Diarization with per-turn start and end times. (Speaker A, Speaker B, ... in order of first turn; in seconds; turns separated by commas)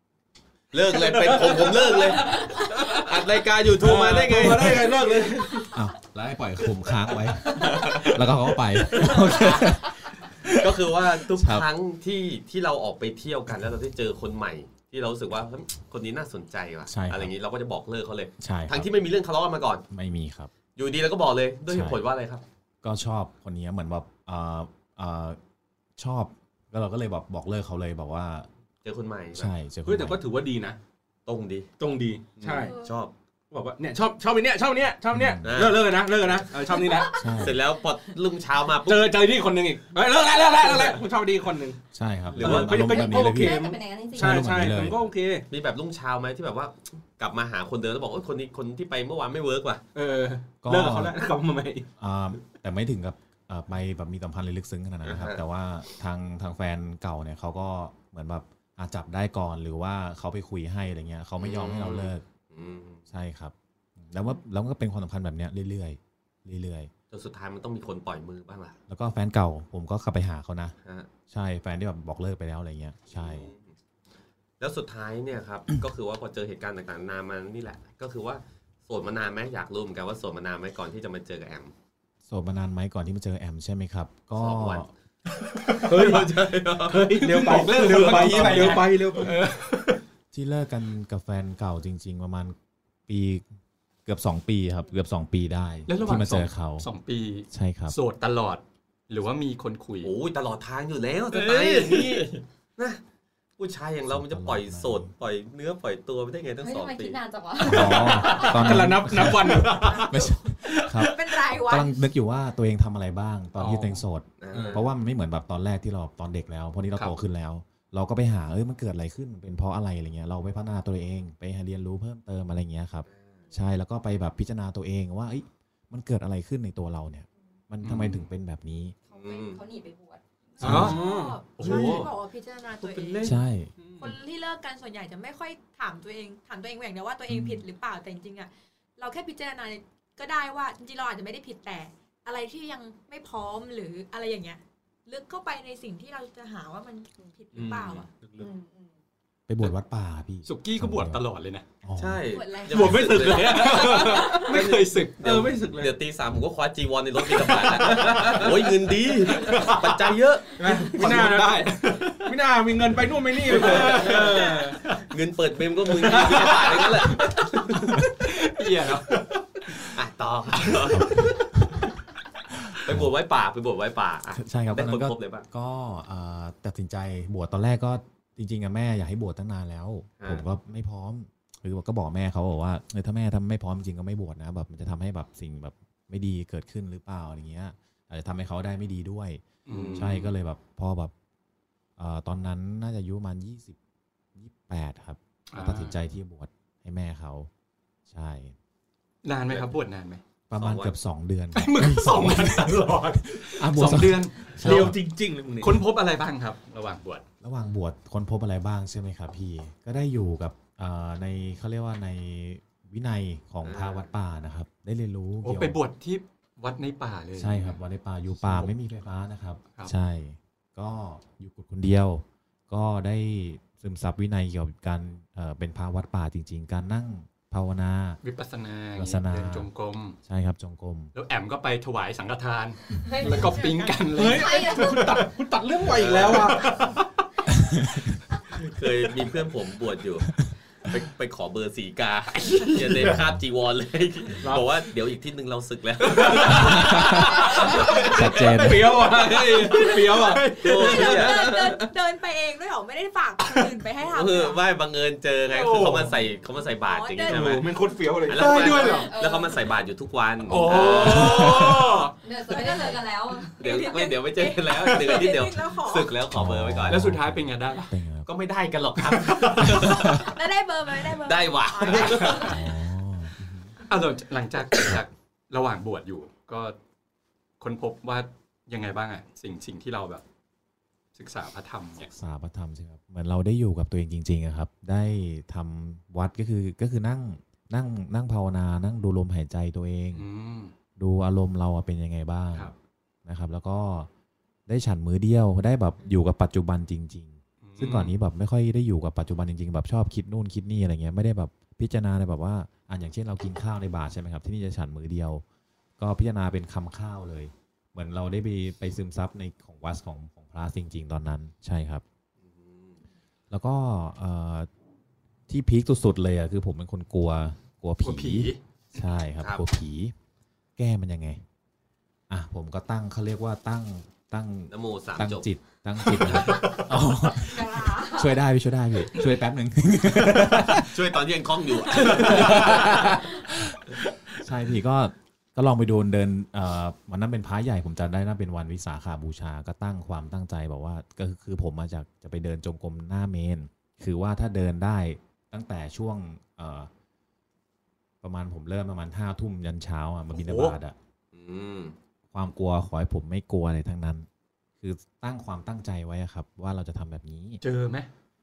Speaker A: 0.7-5.0, Speaker B: 0.9-3.0, Speaker B: 3.8-5.8, Speaker C: 5.7-11.7, Speaker A: 7.6-8.2, Speaker A: 9.0-9.9, Speaker A: 10.4-19.9, Speaker C: 16.9-17.3, Speaker C: 18.4-19.1, Speaker C: 19.9-20.5, Speaker A: 20.8-22.4, Speaker C: 21.7-22.0, Speaker C: 22.8-25.4, Speaker C: 26.0-28.5, Speaker A: 28.8-29.5, Speaker C: 29.3-30.2, Speaker B: 29.9-30.8, Speaker A: 31.3-31.7, Speaker B: 31.8-32.8, Speaker A: 32.4-33.1, Speaker B: 33.5-37.2, Speaker C: 35.1-35.5, Speaker A: 35.4-36.5, Speaker D: 36.8-37.1, Speaker C: 37.1-37.6, Speaker A: 37.3-39.1, Speaker B: 38.8-41.8, Speaker C: 41.9-43.6, Speaker A: 42.4-42.8, Speaker B: 42.4-45.5, Speaker E: 42.8-44.5, Speaker C: 44.2-45.0, Speaker A: 45.5-49.8, Speaker B: 50.0-51.9, Speaker C: 50.6-51.2, Speaker C: 52.0-62.3, Speaker A: 55.0-55.4, Speaker A: 61.4-63.1, Speaker C: 63.1-66.9, Speaker A: 67.1-68.8, Speaker C: 68.9-70.8, Speaker A: 70.8-71.1, Speaker C: 71.3-73.5, Speaker A: 73.1-73.8, Speaker A: 74.6-81.7, Speaker C: 82.3-84.9, Speaker A: 84.4-84.9, Speaker B: 85.8-89.4, Speaker A: 85.9-87.1, Speaker F: 87.2-90.0, Speaker A: 88.4-88.7, Speaker C: 90.3-92.6, Speaker C: 93.1-93.5, Speaker C: 94.1-96.9, Speaker F: 95.9-100.1, Speaker C: 97.5-98.0, Speaker A: 100.0-103.0, Speaker F: 101.3-102.4, Speaker A: 103.6-107.2, Speaker C: 104.0-105.1, Speaker E: 106.6-108.5, Speaker C: 107.6-129.0, Speaker B: 107.8-110.1, Speaker D: 109.8-112.1, Speaker F: 113.6-114.0, Speaker A: 114.4-114.9, Speaker A: 123.1-123.5, Speaker F: 127.8-128.2, Speaker E: 129.1-130.2, Speaker A: 129.1-129.6, Speaker F: 130.6-131.0, Speaker D: 130.6-133.4, Speaker C: 130.6-131.0, Speaker B: 130.7-131.4, Speaker F: 131.6-132.1, Speaker A: 131.6-132.1, Speaker A: 132.8-133.4, Speaker C: 133.2-133.7, Speaker D: 134.0-148.8, Speaker C: 137.3-137.6, Speaker A: 147.6-148.1, Speaker B: 148.1-148.5, Speaker C: 149.5-151.2, Speaker F: 150.4-151.7, Speaker C: 151.8-152.3, Speaker A: 152.0-161.2, Speaker D: 152.3-153.4, Speaker B: 152.7-154.5, Speaker F: 153.3-155.2, Speaker D: 154.2-154.5, Speaker B: 155.2-155.9, Speaker B: 157.4-158.6, Speaker F: 159.4-159.8, Speaker B: 159.4-159.8, Speaker F: 160.6-162.3, Speaker B: 160.6-164.8, Speaker F: 163.5-165.0, Speaker A: 163.5-164.5, Speaker A: 165.0-168.0, Speaker B: 166.0-166.6, Speaker F: 166.0-169.9, Speaker A: 169.9-171.4, Speaker C: 170.8-171.9, Speaker C: 172.5-173.1, Speaker A: 172.8-175.5, Speaker C: 174.3-191.1, Speaker F: 189.7-190.3, Speaker A: 189.7-190.2, Speaker C: 192.0-193.8, Speaker C: 194.4-197.5, Speaker F: 195.5-196.0, Speaker C: 198.1-198.6, Speaker F: 199.2-200.2, Speaker C: 200.5-205.0, Speaker A: 200.6-200.9, Speaker F: 201.6-205.0, Speaker B: 204.6-205.8, Speaker F: 205.6-207.2, Speaker C: 207.4-215.8, Speaker A: 213.6-214.1, Speaker F: 215.4-217.8, Speaker C: 217.4-228.2, Speaker F: 218.3-218.7, Speaker F: 228.2-230.2, Speaker C: 228.9-229.7, Speaker C: 230.2-231.1, Speaker F: 231.2-235.3, Speaker D: 233.1-235.0, Speaker B: 234.1-236.9, Speaker A: 235.9-236.6, Speaker F: 236.5-237.0, Speaker C: 237.5-238.2, Speaker A: 238.5-240.3, Speaker A: 240.9-248.4, Speaker C: 243.0-243.4, Speaker B: 244.4-244.8, Speaker F: 246.2-246.8, Speaker B: 246.2-246.6, Speaker C: 246.6-247.3, Speaker B: 247.2-251.1, Speaker F: 247.5-251.3, Speaker C: 248.1-249.0, Speaker A: 249.2-250.0, Speaker A: 250.6-251.8, Speaker D: 250.8-254.6, Speaker A: 254.1-257.7, Speaker F: 255.5-256.2, Speaker D: 256.6-257.9, Speaker B: 257.3-258.8, Speaker A: 258.2-261.7, Speaker F: 258.3-259.1, Speaker E: 259.0-259.7, Speaker C: 260.4-261.8, Speaker F: 260.5-262.1, Speaker E: 262.2-263.6, Speaker D: 262.5-266.2, Speaker A: 263.6-267.1, Speaker C: 266.3-268.3, Speaker F: 266.9-268.0, Speaker A: 268.3-270.3, Speaker D: 269.7-272.6, Speaker C: 269.8-270.2, Speaker A: 271.2-272.6, Speaker F: 271.9-272.5, Speaker C: 272.4-273.8, Speaker F: 273.9-276.8, Speaker F: 277.6-280.2, Speaker F: 281.1-282.1, Speaker C: 282.0-290.3, Speaker F: 290.1-290.7, Speaker C: 291.0-292.7, Speaker C: 293.2-294.1, Speaker C: 294.7-305.4, Speaker F: 297.6-298.1, Speaker C: 306.0-312.0, Speaker A: 312.4-313.0, Speaker C: 313.5-314.7, Speaker C: 315.5-320.1, Speaker F: 318.0-318.6, Speaker C: 320.8-321.4, Speaker C: 322.3-331.2, Speaker A: 324.7-325.5, Speaker F: 326.1-326.8, Speaker E: 327.3-328.4, Speaker A: 330.8-333.2, Speaker C: 332.0-333.7, Speaker F: 332.1-333.1, Speaker C: 334.4-346.9, Speaker C: 348.2-351.0, Speaker F: 350.3-350.8, Speaker A: 351.3-352.0, Speaker C: 352.3-354.3, Speaker C: 354.8-357.6, Speaker F: 357.6-358.1